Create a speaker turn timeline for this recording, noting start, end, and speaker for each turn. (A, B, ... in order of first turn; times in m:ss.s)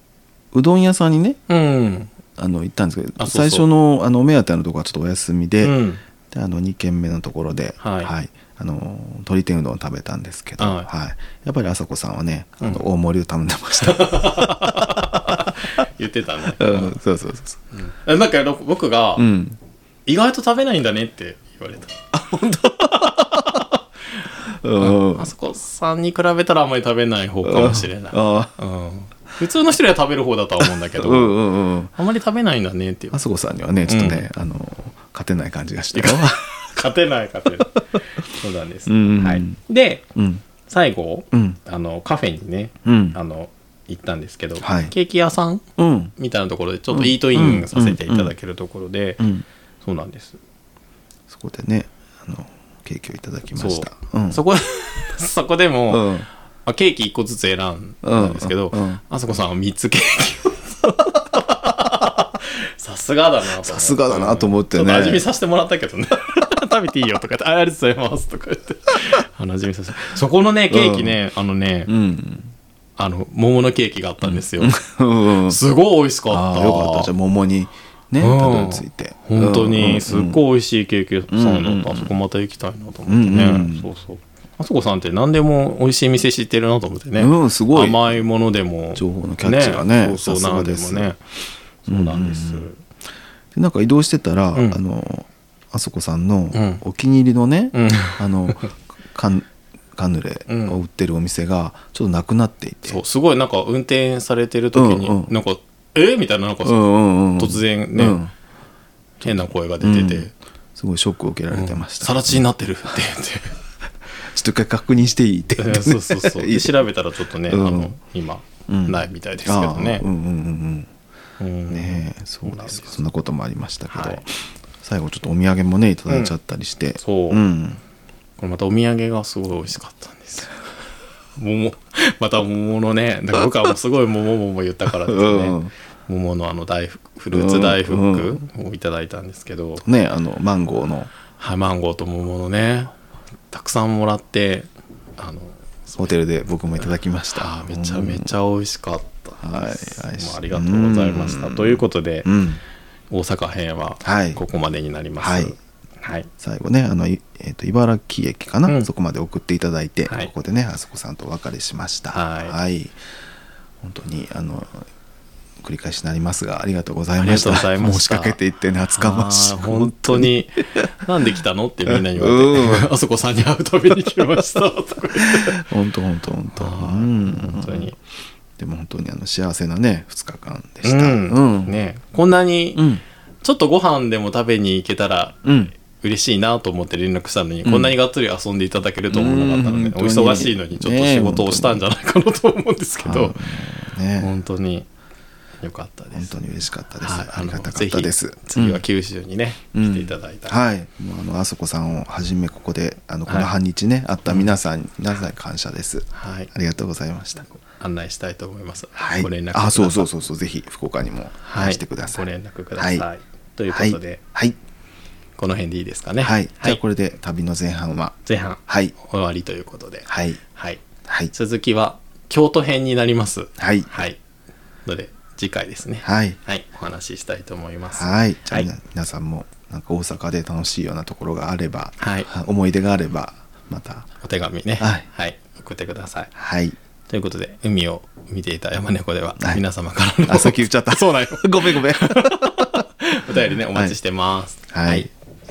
0:00.5-0:01.4 A
0:01.5-0:02.1 B
0:02.4-0:05.8 A
0:03.2-0:03.7 B
0:05.6-0:06.0 B
0:06.3-0:15.6 A
0:07.8-0:08.1 B
0:10.6-0:10.9 B
0:13.8-0:17.0 B
0:16.6-0:17.6 A
0:17.8-0:19.3 B
0:19.2-0:19.6 A
0:20.1-0:22.0 B
0:22.1-0:23.7 A
0:22.9-0:23.8 B
0:24.5-0:25.3 A
0:24.8-0:31.4 B
0:27.4-0:28.5 A
0:30.6-0:31.9 A
0:31.9-0:33.2 B
0:33.1-0:36.4 A
0:33.9-0:34.3 B
0:35.9-0:40.0 B
0:38.9-0:39.6 A
0:40.1-0:40.4 A
0:40.6-0:45.6 B
0:41.3-0:41.6 A
0:42.8-0:43.2 A
0:44.6-0:44.9 A
0:45.8-0:46.1 A
0:46.2-0:49.3 B
0:46.9-0:48.3 A
0:49.2-0:49.4 A
0:49.8-0:50.4 B
0:51.3-0:54.4 A
0:53.6-1:11.9 B
0:55.9-0:56.3 A
0:58.0-0:59.0 A
1:03.6-1:05.2 A
1:10.7-1:11.2 A
1:11.9-1:12.5 A
1:13.0-1:14.8 B
1:14.2-1:15.6 A
1:15.3-1:17.1 B
1:16.3-1:20.4 A
1:18.2-1:31.2 B
1:21.3-1:22.1 A
1:23.1-1:23.9 A
1:27.2-1:28.2 A
1:29.0-1:31.1 A
1:31.8-1:32.8 B
1:31.9-1:32.7 A
1:33.6-1:43.0 A
1:36.5-1:36.8 B
1:37.7-1:38.7 B
1:40.5-1:40.8 B
1:42.9-1:48.2 B
1:44.7-1:45.3 A
1:46.6-1:48.3 A
1:49.2-1:50.3 B
1:49.8-1:52.4 A
1:51.5-1:53.6 B
1:54.2-1:56.8 A
1:55.6-2:00.0 B
1:57.5-1:57.9 A
1:58.7-2:00.9 A
2:01.4-2:03.0 B
2:01.7-2:07.8 A
2:03.9-2:04.2 B
2:06.1-2:06.4 B
2:07.0-2:07.4 B
2:08.4-2:10.6 B
2:11.4-2:19.8 B
2:14.9-2:15.7 A
2:17.3-2:18.5 A
2:19.8-2:21.1 A
2:21.4-2:22.9 B
2:23.5-2:26.1 B
2:26.0-2:28.3 A
2:27.3-2:32.3 B
2:29.4-2:32.6 A
2:33.1-2:36.3 B
2:34.0-2:34.4 A
2:35.2-2:35.5 A
2:36.4-2:43.0 A
2:40.1-2:40.3 B
2:42.1-2:42.6 B
2:43.8-2:44.9 A
2:45.6-2:50.3 A
2:47.2-2:48.4 B
2:48.9-2:55.6 B
2:51.9-2:52.9 A
2:55.2-2:57.9 A
2:56.5-2:58.0 B
2:58.6-3:01.8 A
3:00.8-3:02.9 B
3:02.8-3:03.0 A
3:03.4-3:13.4 B
3:05.4-3:05.7 A
3:07.6-3:07.9 A
3:09.1-3:11.8 A
3:13.0-3:14.3 A
3:14.2-3:14.9 B
3:15.6-3:16.4 B
3:16.1-3:18.8 A
3:17.0-3:20.6 B
3:19.7-3:27.5 A
3:26.1-3:26.5 B
3:27.6-3:30.1 B
3:29.0-3:32.3 A
3:31.4-3:34.2 B
3:32.8-3:33.1 A
3:33.7-3:34.6 A
3:35.4-3:36.8 B
3:36.2-3:38.9 A
3:38.3-3:44.2 B
3:40.1-3:40.4 A
3:41.1-3:41.3 A
3:43.6-3:43.9 A
3:44.9-3:48.7 B
3:46.0-3:46.4 A
3:48.0-3:54.1 A
3:52.0-3:52.3 B
3:54.2-3:56.3 B
3:56.4-3:56.8 A
3:57.1-4:05.1 B
4:00.3-4:02.8 A
4:04.7-4:05.1 A